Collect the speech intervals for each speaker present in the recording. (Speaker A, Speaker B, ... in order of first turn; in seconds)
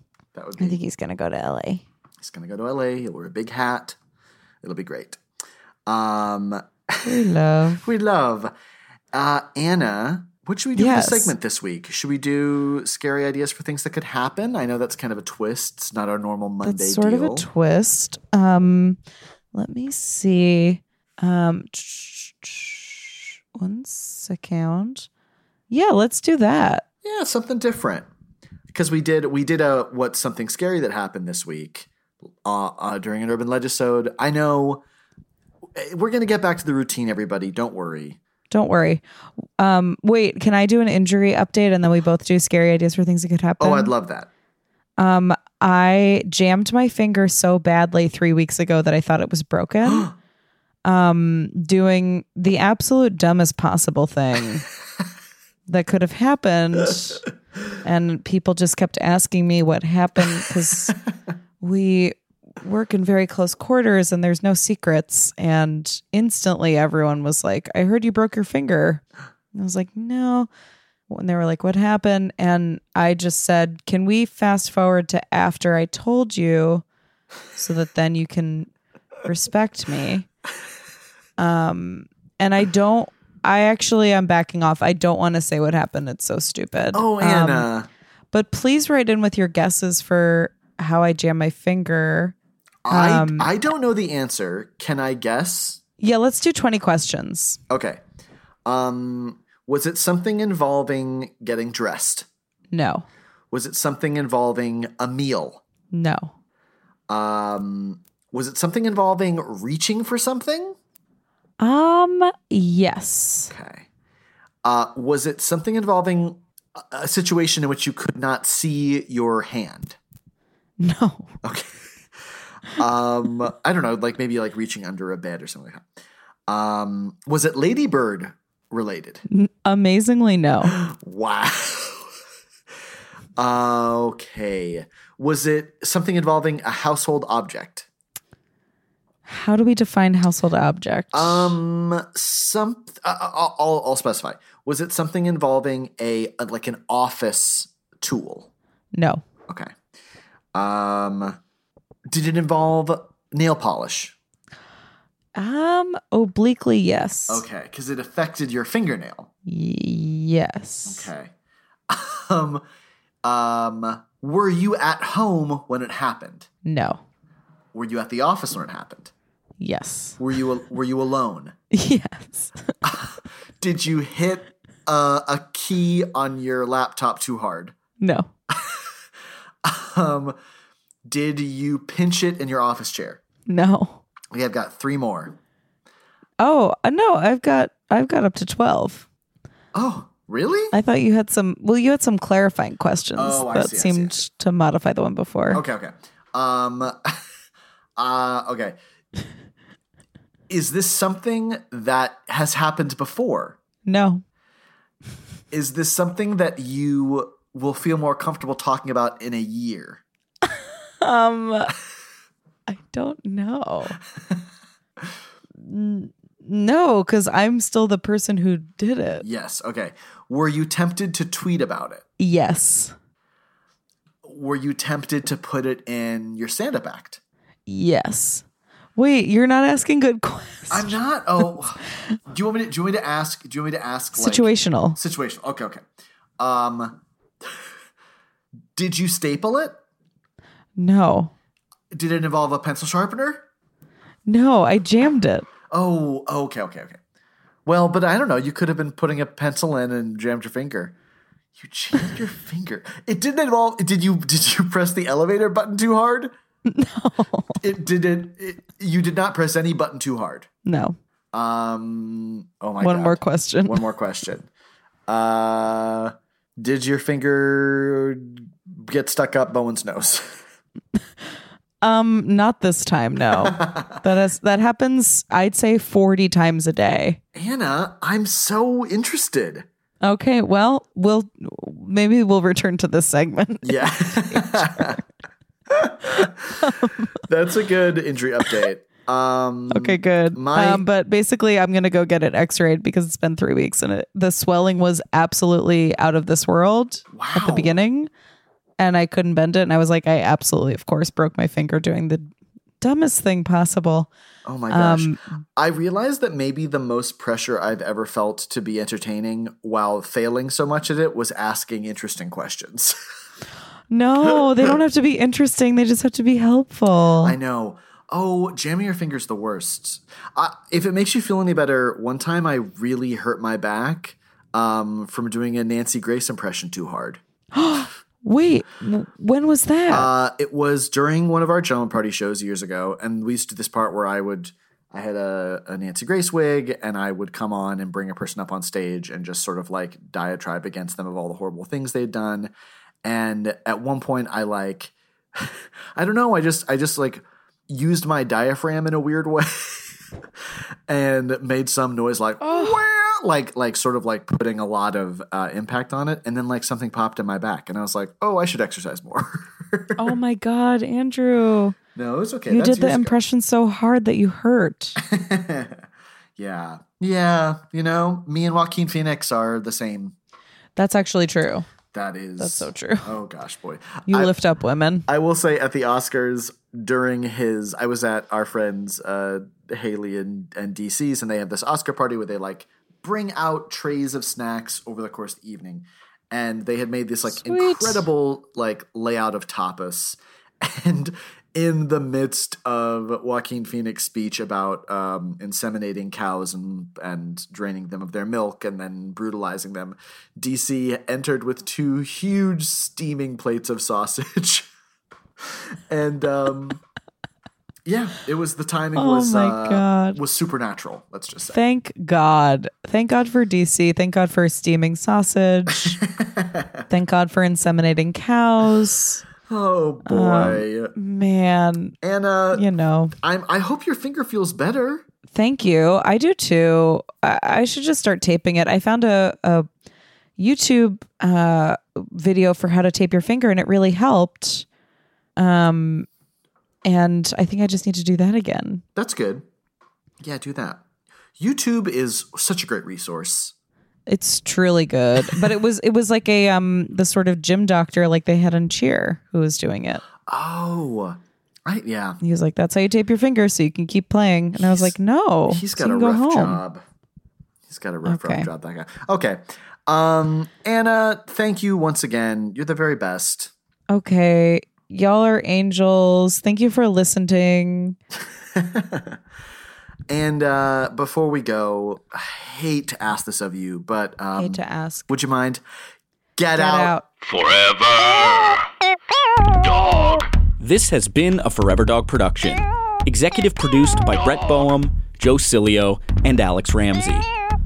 Speaker A: 0.3-0.8, 2.2-4.0, 4.6-5.2, 5.9-7.3, 7.8-8.5, 9.1-17.5, 27.0-28.1, 28.7-31.9, 32.4-34.8, 35.7-38.2, 43.6-44.3, 86.9-87.9, 92.8-95.8, 97.7-98.0, 98.6-102.3, 103.5-105.6, 107.1-110.8, 113.5-113.9, 114.6-120.0, 121.4-121.8, 122.7-125.8, 126.5-129.2, 130.6-132.1, 133.4-137.9, 141.1-148.5, 149.5-149.7, 150.5-151.4, 152.1-154.1, 157.3-159.3, 160.8-161.3, 161.9-162.6, 163.2-166.5, 167.7-169.1, 170.2-171.5, 172.8-177.7, 178.5-178.9, 179.6-180.4, 181.1-183.2, 184.3-185.3, 189.7-190.7, 193.1-194.2, 195.5-197.2, 198.0-198.8, 200.5-203.6, 205.5-210.0, 219.2-222.0, 224.2-227.2, 230.7-235.8, 236.4-237.6, 238.8-239.8, 241.9-243.4, 245.7-247.0, 247.7-250.9, 251.5-256.3, 257.6-260.5, 261.3-264.5, 265.1-270.4, 273.3-274.0, 277.3-279.6, 283.6-285.0, 285.7-290.8, 297.1-297.7, 304.4-313.0, 314.3-314.7, 317.2-327.2, 329.9-342.5, 343.0-349.9, 350.9-360.1, 361.9-363.2, 365.0-365.8, 366.4-370.1, 371.9-374.3, 375.1-404.7, 405.4-406.8, 407.9-411.6, 415.9-416.8, 419.5-420.9, 422.0-422.6, 423.2-425.0, 438.9-439.4, 440.2-440.8, 441.4-443.5, 450.2-452.2, 454.6-454.9, 455.5-456.8, 457.7-463.5, 468.5-469.2, 470.1-475.6, 476.4-476.9
Speaker B: 0.6-1.8, 7.0-7.8, 10.7-11.3, 16.6-19.0, 19.5-25.1, 25.7-26.9, 38.5-39.0, 39.6-43.9, 45.0-50.1, 50.8-54.6, 55.7-57.2, 57.8-61.0, 61.6-70.5, 71.1-76.8, 77.5-78.7, 79.2-80.3, 81.4-87.7, 88.3-92.3, 92.9-93.5, 96.0-97.6, 102.7-103.0, 105.9-106.3, 111.6-113.5, 120.8-121.3, 129.3-130.8, 139.2-141.6, 148.9-149.2, 155.3-157.4, 159.4-161.1, 166.6-167.0, 169.6-170.2, 171.7-172.7, 178.0-178.3, 183.5-184.0, 186.4-189.1, 190.7-195.6, 203.8-204.2, 211.0-211.7, 212.7-214.0, 215.6-219.2, 222.2-222.9, 227.7-228.4, 228.9-231.0, 234.2-235.0, 240.8-241.3, 244.3-245.5, 256.7-257.6, 260.6-261.0, 262.8-263.9, 271.8-277.2, 280.0-285.0, 286.6-286.9, 289.7-298.1, 298.8-302.3, 302.8-304.1, 304.7-305.4, 313.9-317.3, 327.5-330.1, 352.4-352.8, 360.0-361.8, 362.5-365.0, 370.8-371.7, 372.4-373.1, 374.1-375.1, 387.3-388.1, 408.9-410.2, 411.5-416.0, 416.9-419.2, 420.1-422.0, 422.5-423.1, 425.3-429.7, 430.4-434.6, 435.4-436.1, 436.8-438.8, 444.1-450.0, 452.2-456.6, 458.1-458.5, 463.9-468.0, 474.4-475.1, 476.5-477.1
Speaker C: 477.2-478.7, 479.6-487.3